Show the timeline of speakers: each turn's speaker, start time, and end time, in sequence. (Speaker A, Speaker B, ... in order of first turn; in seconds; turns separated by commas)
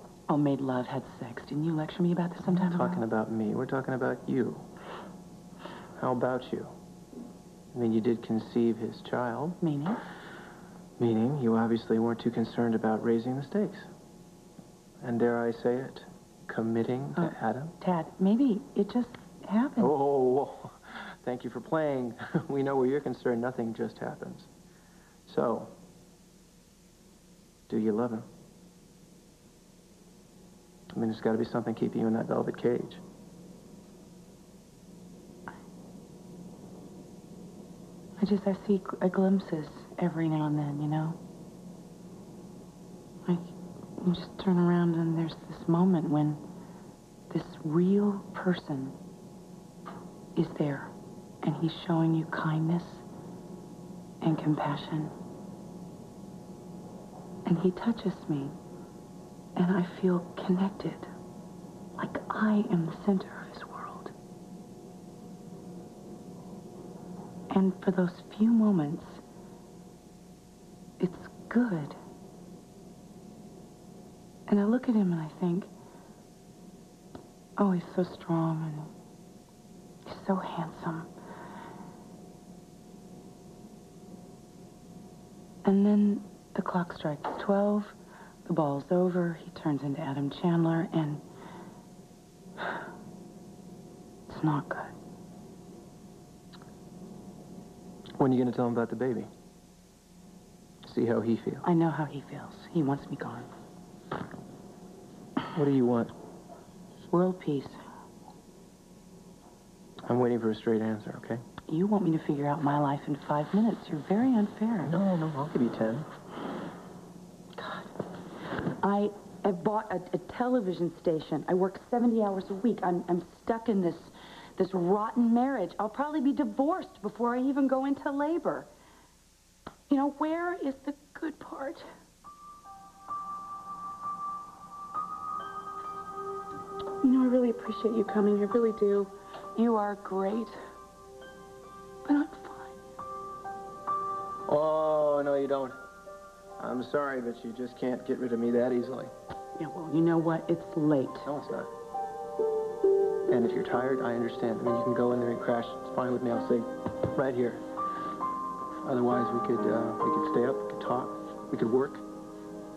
Speaker A: 0.3-3.0, Speaker B: 2.5-4.7, Speaker B: 6.0-6.7, Speaker B: 7.7-9.6, Speaker A: 9.6-10.0, Speaker B: 11.0-13.9, Speaker B: 15.0-17.8, Speaker A: 17.2-19.9, Speaker B: 19.8-24.5, Speaker B: 25.3-25.7, Speaker B: 27.7-28.3, Speaker B: 30.9-33.0, Speaker A: 38.2-41.2, Speaker A: 43.3-46.4, Speaker A: 47.3-49.0, Speaker A: 50.4-50.9, Speaker A: 51.4-53.1, Speaker A: 54.2-55.1, Speaker A: 57.5-58.5, Speaker A: 59.6-61.1, Speaker A: 62.0-64.1, Speaker A: 67.5-69.2, Speaker A: 71.0-72.0, Speaker A: 74.5-75.7, Speaker A: 77.6-78.9, Speaker A: 80.1-81.1, Speaker A: 85.7-88.0, Speaker A: 88.5-91.2, Speaker A: 94.3-94.9, Speaker B: 98.2-99.3, Speaker B: 100.8-101.7, Speaker A: 101.6-103.5, Speaker B: 105.5-106.1, Speaker A: 107.1-107.8, Speaker B: 110.1-111.4, Speaker A: 111.7-115.0, Speaker B: 114.8-116.1, Speaker A: 117.6-117.9, Speaker A: 118.5-128.7, Speaker A: 129.9-131.8, Speaker A: 137.0-140.6, Speaker A: 142.1-142.8, Speaker B: 144.5-145.8, Speaker B: 146.6-149.1, Speaker A: 149.6-151.3, Speaker B: 151.2-151.7, Speaker B: 153.3-157.6, Speaker B: 158.8-162.0